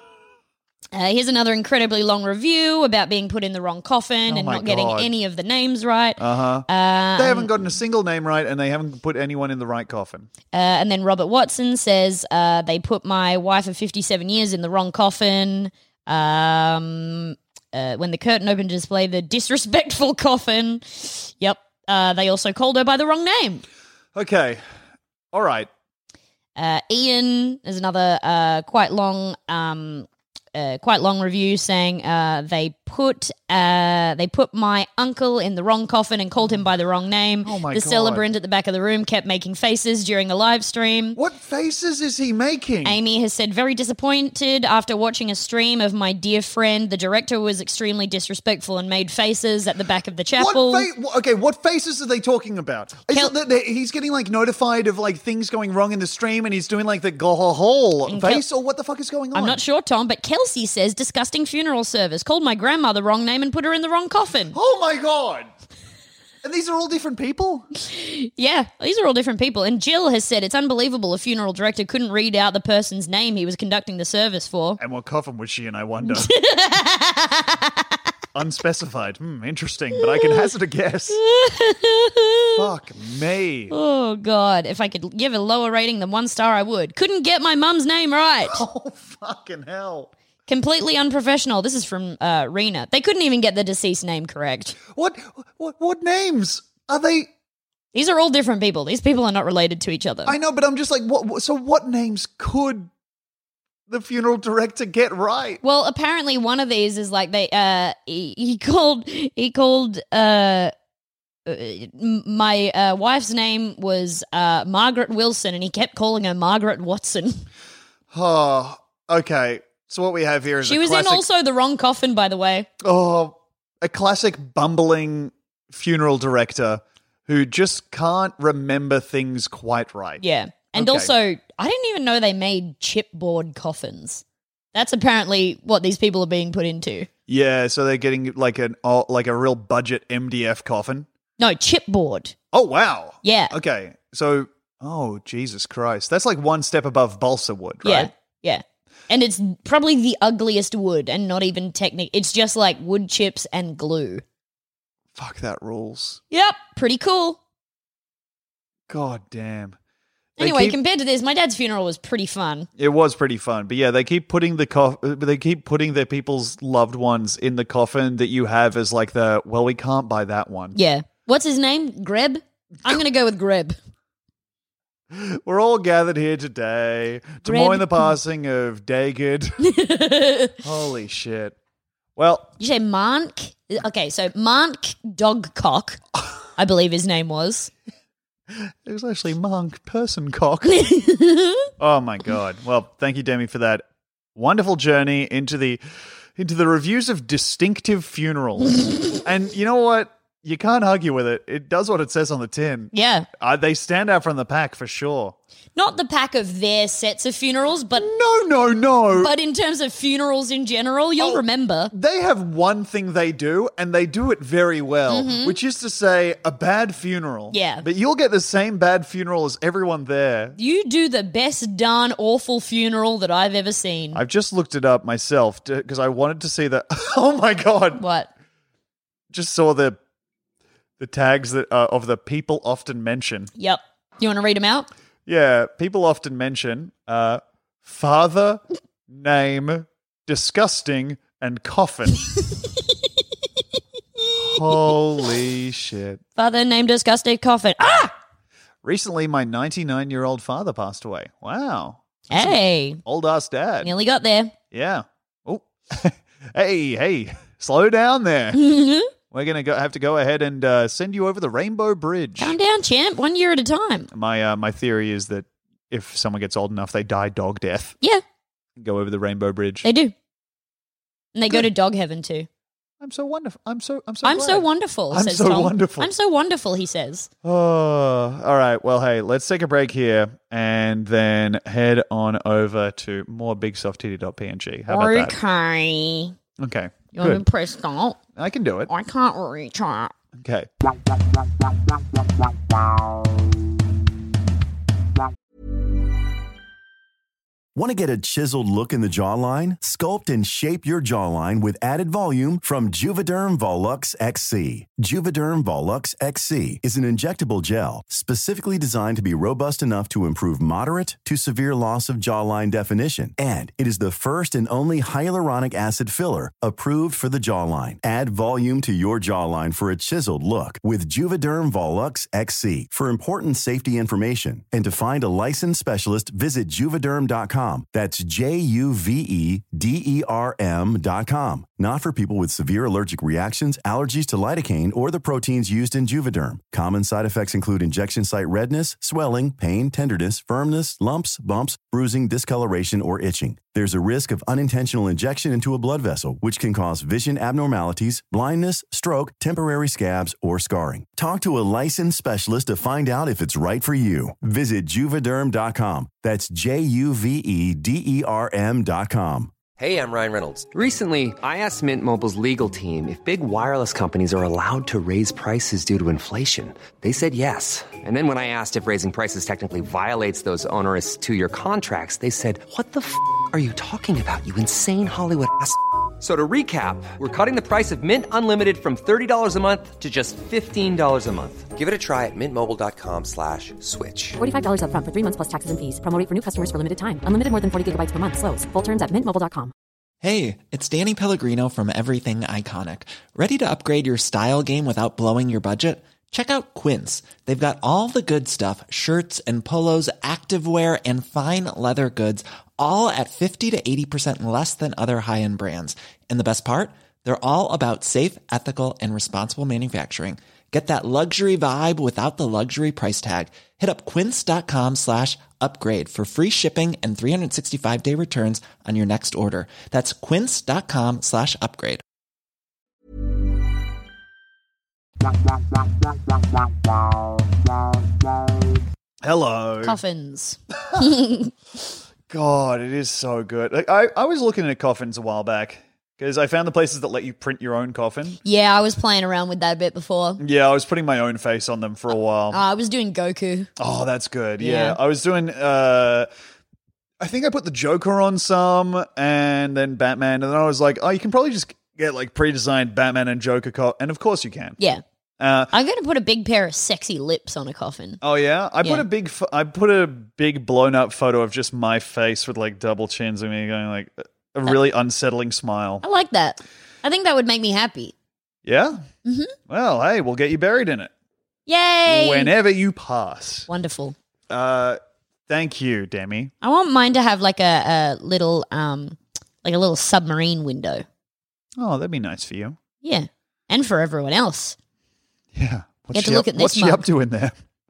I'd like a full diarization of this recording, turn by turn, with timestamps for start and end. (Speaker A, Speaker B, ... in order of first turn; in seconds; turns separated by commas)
Speaker A: 0.9-7.5, Speaker B: 4.3-5.1, Speaker B: 6.2-10.3, Speaker A: 10.5-23.6, Speaker B: 24.1-24.6, Speaker B: 25.3-25.7, Speaker A: 26.6-41.2, Speaker B: 37.4-38.2, Speaker B: 41.1-43.0, Speaker A: 42.8-50.9, Speaker B: 50.3-59.6, Speaker A: 58.1-58.4, Speaker A: 59.3-64.5, Speaker B: 64.5-65.5, Speaker B: 66.4-67.7, Speaker A: 67.8-74.8, Speaker B: 74.8-76.3, Speaker A: 76.0-78.0, Speaker B: 78.3-81.2, Speaker A: 80.0-80.5, Speaker A: 81.1-82.6, Speaker B: 82.5-83.7, Speaker A: 83.7-88.6, Speaker B: 88.5-90.1, Speaker A: 90.5-94.8, Speaker B: 94.9-97.3, Speaker A: 97.9-100.3, Speaker B: 100.2-102.9, Speaker B: 103.9-105.6, Speaker A: 105.6-110.7, Speaker A: 111.5-117.5, Speaker B: 118.1-121.2, Speaker A: 120.6-122.7, Speaker B: 122.8-130.2, Speaker A: 130.2-137.1, Speaker B: 130.7-131.1, Speaker B: 137.3-141.1, Speaker A: 141.4-142.3, Speaker B: 142.5-148.1, Speaker A: 143.2-143.5, Speaker A: 147.8-154.2, Speaker B: 155.1-156.2, Speaker A: 156.3-157.4, Speaker B: 158.9-159.8, Speaker A: 160.4-162.7, Speaker B: 160.4-160.8, Speaker B: 162.8-170.8, Speaker A: 170.7-173.8, Speaker B: 175.1-179.6, Speaker A: 177.4-178.1, Speaker A: 179.6-180.5, Speaker B: 180.6-181.5, Speaker B: 182.2-182.5, Speaker A: 182.6-186.0, Speaker A: 186.6-187.7, Speaker B: 188.5-190.9, Speaker A: 190.7-191.7, Speaker B: 191.8-193.8, Speaker B: 194.3-195.8, Speaker B: 196.4-205.3, Speaker A: 202.9-203.3, Speaker A: 205.8-208.1, Speaker B: 208.0-209.3, Speaker A: 209.1-211.9, Speaker B: 211.2-220.6, Speaker A: 215.1-215.6, Speaker A: 217.5-217.8, Speaker A: 220.6-224.2, Speaker B: 224.1-228.0, Speaker A: 228.0-228.3, Speaker B: 229.3-230.0, Speaker B: 231.0-233.5, Speaker A: 233.6-234.9, Speaker B: 235.3-242.3, Speaker A: 244.2-244.9, Speaker B: 244.4-246.2, Speaker A: 246.4-248.1, Speaker B: 248.8-253.9, Speaker A: 252.3-253.0, Speaker A: 253.8-254.5, Speaker B: 254.7-258.6, Speaker A: 258.5-259.1, Speaker B: 259.3-262.5, Speaker A: 262.4-264.1, Speaker B: 264.1-267.9, Speaker B: 268.8-269.9, Speaker A: 269.8-270.1, Speaker A: 271.3-272.5, Speaker B: 273.0-276.1, Speaker A: 274.2-277.3, Speaker B: 277.4-285.3, Speaker A: 284.9-286.3, Speaker B: 286.6-287.4, Speaker A: 287.1-288.2, Speaker B: 288.4-288.9, Speaker A: 288.9-290.1, Speaker B: 290.4-290.7, Speaker C: 297.7-359.5, Speaker D: 359.8-384.4, Speaker E: 384.4-389.7, Speaker F: 390.2-422.0, Speaker B: 429.2-430.0, Speaker A: 429.8-431.5, Speaker B: 430.8-431.1, Speaker B: 432.3-438.4, Speaker A: 438.4-440.4, Speaker B: 440.4-442.6, Speaker A: 442.5-443.7, Speaker B: 443.8-446.3, Speaker A: 444.6-445.0, Speaker B: 447.2-454.8, Speaker B: 455.4-455.7, Speaker A: 455.7-458.2, Speaker B: 458.2-466.0, Speaker A: 466.0-468.1, Speaker B: 468.6-469.0, Speaker A: 469.2-469.5, Speaker B: 469.7-471.1, Speaker A: 471.7-472.5, Speaker B: 472.1-473.7, Speaker A: 473.7-474.1, Speaker B: 474.5-476.5, Speaker A: 476.6-481.0, Speaker B: 481.8-482.8, Speaker A: 483.0-484.8, Speaker B: 485.5-487.5, Speaker A: 486.1-487.0